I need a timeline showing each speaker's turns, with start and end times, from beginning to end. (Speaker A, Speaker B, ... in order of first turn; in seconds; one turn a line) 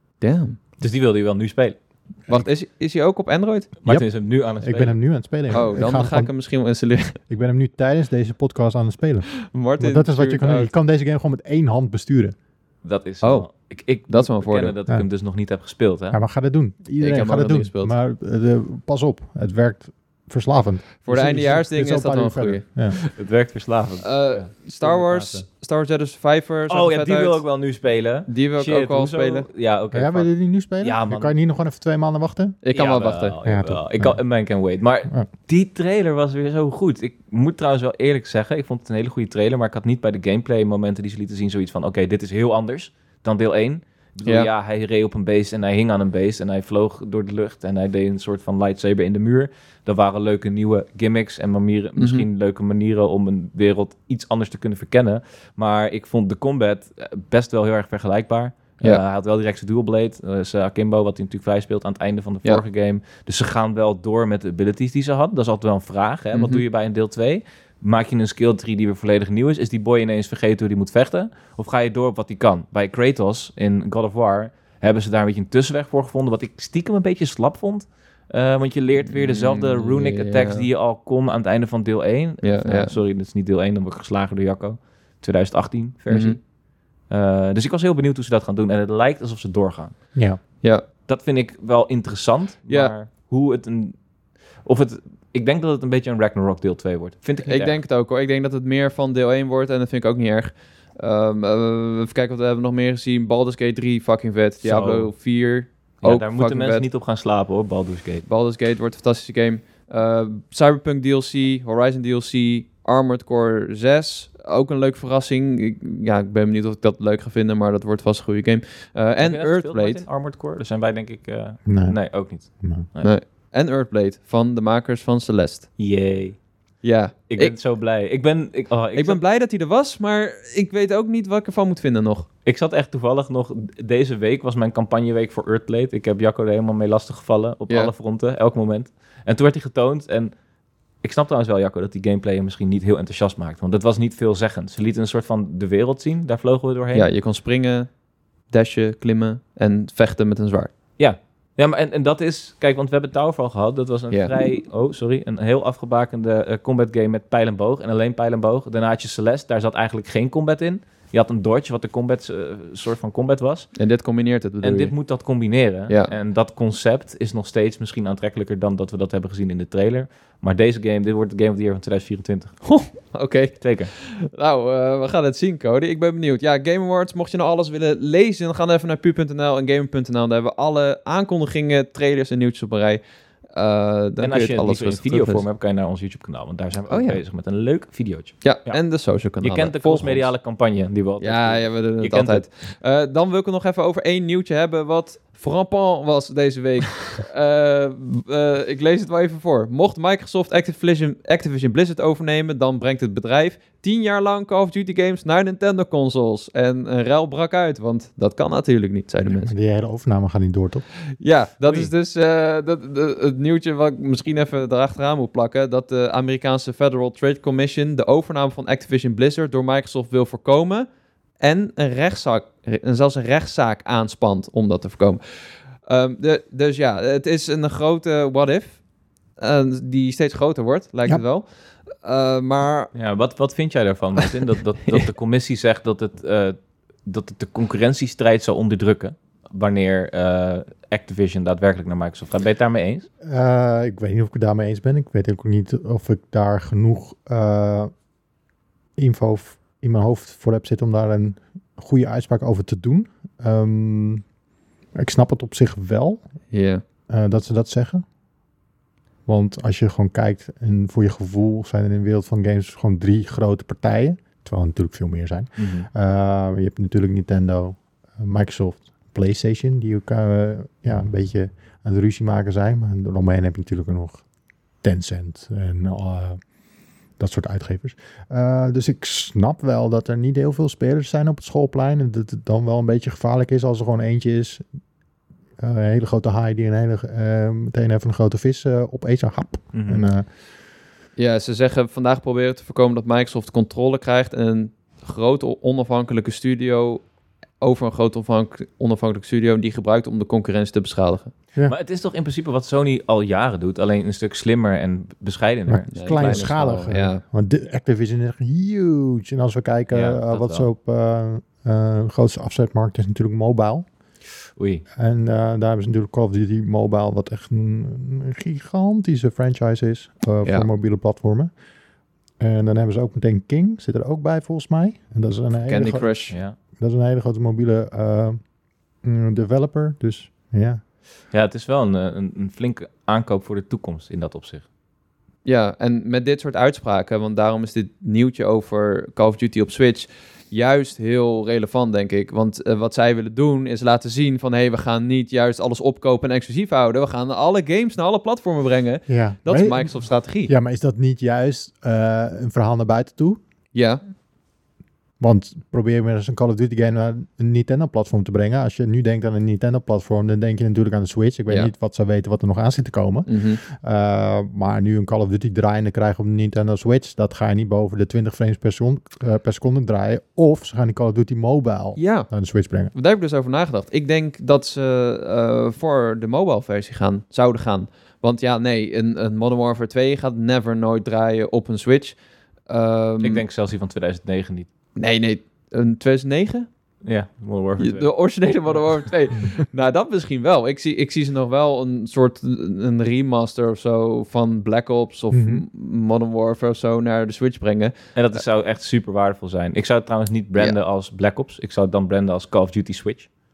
Speaker A: 0.2-0.6
Speaker B: 0.8-1.8
Speaker A: 2.3-3.7
Speaker B: 3.8-5.0
Speaker C: 4.6-6.3
Speaker A: 5.5-7.2
Speaker C: 7.3-12.3
Speaker A: 9.5-10.7
Speaker B: 12.8-16.2
Speaker A: 13.2-13.5
Speaker A: 14.1-14.7
Speaker C: 16.1-23.0
Speaker A: 17.0-17.9
Speaker A: 21.1-23.0
Speaker B: 23.0-25.4
Speaker A: 24.0-27.4
Speaker B: 26.7-30.3
Speaker A: 28.3-29.5
Speaker C: 29.9-32.6
Speaker B: 30.8-31.3
Speaker A: 32.6-33.4
Speaker B: 32.7-86.4
Speaker C: 33.5-34.2
Speaker A: 52.0-52.2
Speaker A: 66.3-66.6
Speaker A: 79.1-80.7
Speaker A: 82.4-82.9
Speaker A: 86.1-86.4
Speaker B: 87.1-89.9
Speaker C: 90.2-90.4
Speaker B: 91.1-94.0
Speaker B: 94.7-97.8
Speaker A: 97.4-106.8
Speaker B: 104.6-105.1
Speaker B: 106.0-108.3
Speaker A: 108.3-120.0
Speaker B: 119.2-123.1
Speaker C: 121.7-122.0
Speaker C: 122.6-122.9
Speaker A: 123.0-125.7
Speaker B: 125.8-126.4
Speaker A: 126.8-127.6
Speaker B: 127.3-129.2
Speaker A: 128.9-132.3
Speaker B: 132.4-140.3
Speaker B: 141.0-147.1
Speaker A: 146.9-147.9
Speaker A: 148.5-150.7
Speaker B: 151.0-163.7
Speaker A: 163.8-164.9
Speaker B: 164.6-172.9
Speaker A: 165.9-166.1
Speaker A: 172.7-183.0
Speaker B: 173.6-173.9
Speaker A: 183.6-185.4
Speaker B: 184.2-188.8
Speaker A: 186.9-187.2
Speaker A: 188.4-190.3
Speaker B: 189.4-192.5
Speaker A: 191.2-209.5
Speaker C: 209.3-210.8
Speaker A: 211.2-220.9
Speaker A: 221.4-225.2
Speaker A: 225.9-228.8
Speaker A: 229.4-232.9
Speaker B: 232.9-243.1
Speaker C: 243.2-247.9
Speaker C: 249.0-254.2
Speaker C: 255.0-256.2
Speaker A: 256.5-256.8
Speaker C: 257.1-258.0
Speaker C: 259.3-274.2
Speaker B: 265.6-265.9
Speaker C: 274.8-276.4
Speaker C: 277.2-284.6
Speaker C: 285.6-290.3
Speaker B: 289.7-290.1
Speaker A: 291.2-297.1
Speaker A: 297.6-301.3
Speaker B: 301.7-306.8
Speaker C: 305.7-313.9
Speaker A: 305.9-307.2
Speaker B: 309.9-310.7
Speaker B: 314.6-314.8
Speaker C: 315.0-321.5
Speaker C: 322.4-326.1
Speaker A: 325.7-326.4
Speaker B: 326.3-326.6
Speaker C: 326.8-328.4
Speaker C: 329.0-330.8
Speaker B: 331.3-334.6
Speaker A: 335.4-350.5
Speaker C: 349.1-353.4
Speaker A: 353.7-354.0
Speaker C: 355.2-372.9
Speaker A: 363.3-363.6
Speaker A: 372.0-372.3
Speaker A: 372.9-382.2
Speaker A: 382.7-383.4
Speaker B: 383.2-384.7
Speaker A: 385.0-386.7
Speaker B: 387.1-388.1
Speaker A: 387.8-398.4
Speaker B: 388.7-388.9
Speaker C: 395.3-395.6
Speaker B: 398.1-403.3